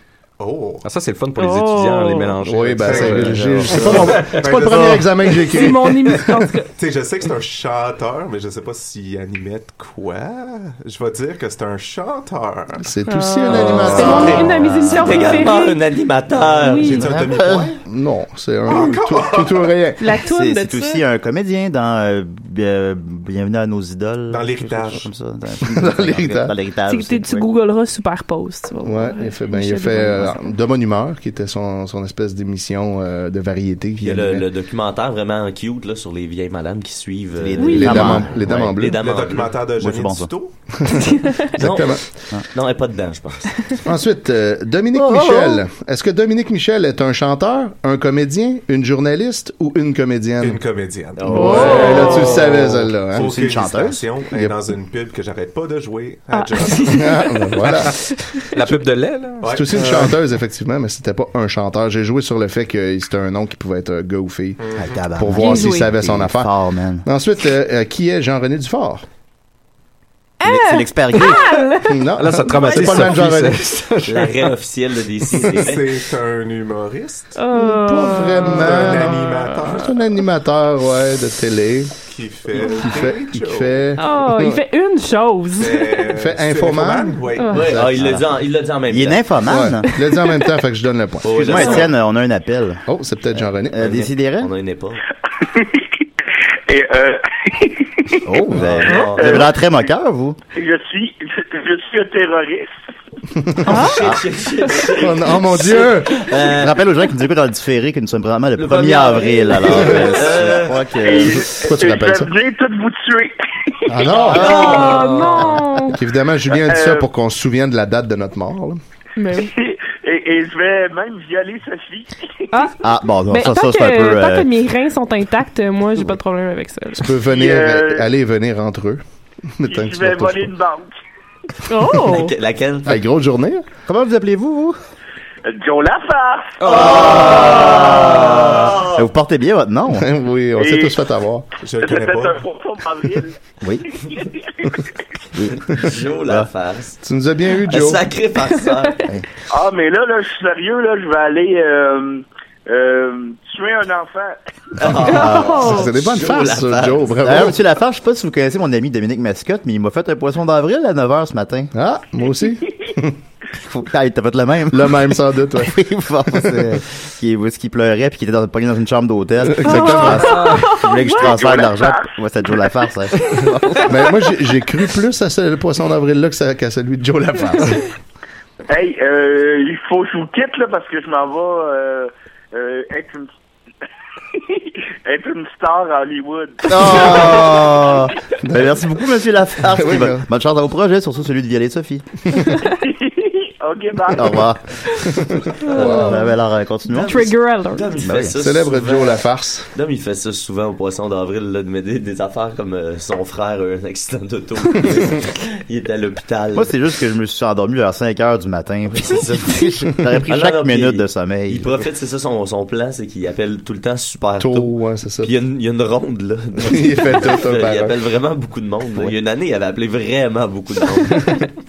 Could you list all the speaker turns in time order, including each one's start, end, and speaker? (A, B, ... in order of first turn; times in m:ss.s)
0:00.4-0:00.8 A
0:00.8-0:04.4 B
0:01.4-0:02.4 C
0:02.4-0:06.4 D
0:02.8-0:05.4 A
0:05.4-0:06.7 C
0:06.8-0:12.9 A
0:12.8-0:15.4 D
0:13.1-0:15.8 C
0:13.6-0:14.8 A
0:14.0-0:14.9 E
0:14.9-0:17.0 F
0:16.4-0:17.8 A
0:16.6-0:17.2 C
0:16.9-0:17.8 E
0:17.8-0:20.2 D
0:18.7-0:19.8 A
0:20.0-0:21.0 C
0:20.3-0:27.5 E
0:24.3-0:25.1 A
0:25.6-0:26.6 D
0:26.9-0:30.6 C
0:28.8-0:34.5 D
0:34.0-0:39.6 F
0:37.4-0:38.6 E
0:37.6-0:38.3 C
0:37.7-0:39.0 D
0:39.0-0:40.6 A
0:39.8-0:40.3 E
0:40.8-0:42.0 D
0:41.0-0:41.5 C
0:41.6-0:42.0 F
0:42.5-0:43.6 F
0:43.8-0:50.6 D
0:45.0-0:45.6 C
0:50.4-0:57.1 A
0:51.2-0:52.4 F
0:51.3-0:53.4 D
0:51.3-0:52.4 C
0:53.2-0:54.0 E
0:54.3-0:54.6 D
0:56.3-0:58.4 C
0:56.8-0:58.0 D
0:58.5-0:59.5 B
0:59.4-1:00.2 A
0:59.5-1:04.6 D
1:04.6-1:05.1 A
1:04.8-1:07.1 E
1:05.2-1:06.5 D
1:05.3-1:05.9 C
1:07.0-1:09.0 D
1:10.4-1:13.1 C
1:10.4-1:11.5 E
1:11.9-1:13.7 D
1:12.2-1:14.5 B
1:14.0-1:15.8 F
1:15.6-1:17.4 A
1:17.4-1:19.6 C
1:17.5-1:22.0 D
1:18.6-1:20.1 A
1:22.1-1:24.0 A
1:22.6-1:24.6 D
1:24.0-1:26.1 C
1:25.6-1:27.9 A
1:26.1-1:28.2 D
1:27.4-1:27.7 C
1:27.5-1:29.3 F
1:28.0-1:28.2 E
1:28.9-1:29.9 E
1:29.5-1:31.7 D
1:30.0-1:30.5 C
1:31.2-1:31.9 F
1:31.3-1:32.8 E
1:31.5-1:31.8 C
1:32.9-1:34.0 D
1:33.4-1:34.5 E
1:33.8-1:35.0 F
1:35.4-1:35.9 G
1:36.7-1:38.3 G
1:38.2-1:40.4 E
1:38.5-1:39.4 F
1:39.0-1:39.5 G
1:40.5-1:42.7 G
1:43.4-1:43.9 D
1:43.6-1:44.1 C
1:43.7-1:46.8 F
1:45.0-1:46.3 D
1:46.4-1:51.5 E
1:48.6-1:50.9 F
1:51.0-1:54.0 G
1:51.2-1:52.3 D
1:53.9-1:54.8 D
1:54.2-1:55.2 F
1:54.2-1:54.8 E
1:54.3-1:56.0 C
1:56.0-1:58.8 D
1:56.5-1:57.1 G
1:59.2-1:59.5 C
1:59.4-2:02.6 G
2:02.5-2:07.2 C
2:02.8-2:04.5 E
2:07.0-2:09.0 D
2:07.3-2:08.1 G
2:09.6-2:10.5 D
2:09.6-2:10.9 G
2:11.7-2:12.4 C
2:12.0-2:13.0 F
2:12.9-2:13.6 D
2:13.9-2:14.8 E
2:15.4-2:16.8 G
2:16.6-2:17.6 B
2:16.7-2:18.9 F
2:16.7-2:20.1 E
2:19.9-2:21.5 D
2:20.6-2:21.0 G
2:21.6-2:22.4 A
2:21.8-2:23.3 G
2:23.9-2:24.9 G
2:25.3-2:26.5 E
2:25.6-2:27.0 F
2:27.0-2:28.0 D
2:27.7-2:29.0 F
2:29.5-2:34.4 G
2:34.8-2:37.2 F
2:34.9-2:35.9 C
2:35.1-2:35.6 E
2:35.1-2:37.6 D
2:37.2-2:41.7 E
2:41.7-2:43.2 D
2:43.6-2:54.0 E
2:44.7-2:46.8 D
2:49.4-2:50.4 D
2:49.6-2:51.6 C
2:51.2-2:52.1 G
2:53.9-2:57.9 D
2:58.7-3:03.3 G
3:04.3-3:08.0 G
3:06.7-3:12.1 E
3:07.0-3:07.4 D
3:08.4-3:08.8 D
3:09.6-3:10.2 D
3:12.4-3:12.7 C
3:12.7-3:14.5 G
3:14.1-3:14.6 E
3:15.0-3:16.2 D
3:15.6-3:16.3 C
3:15.7-3:17.3 E
3:16.9-3:17.9 C
3:17.7-3:26.7 F
3:18.0-3:18.4 E
3:18.4-3:19.7 D
3:26.6-3:31.7 E
3:28.9-3:41.4 F
3:34.4-3:35.3 D
3:36.6-3:38.0 D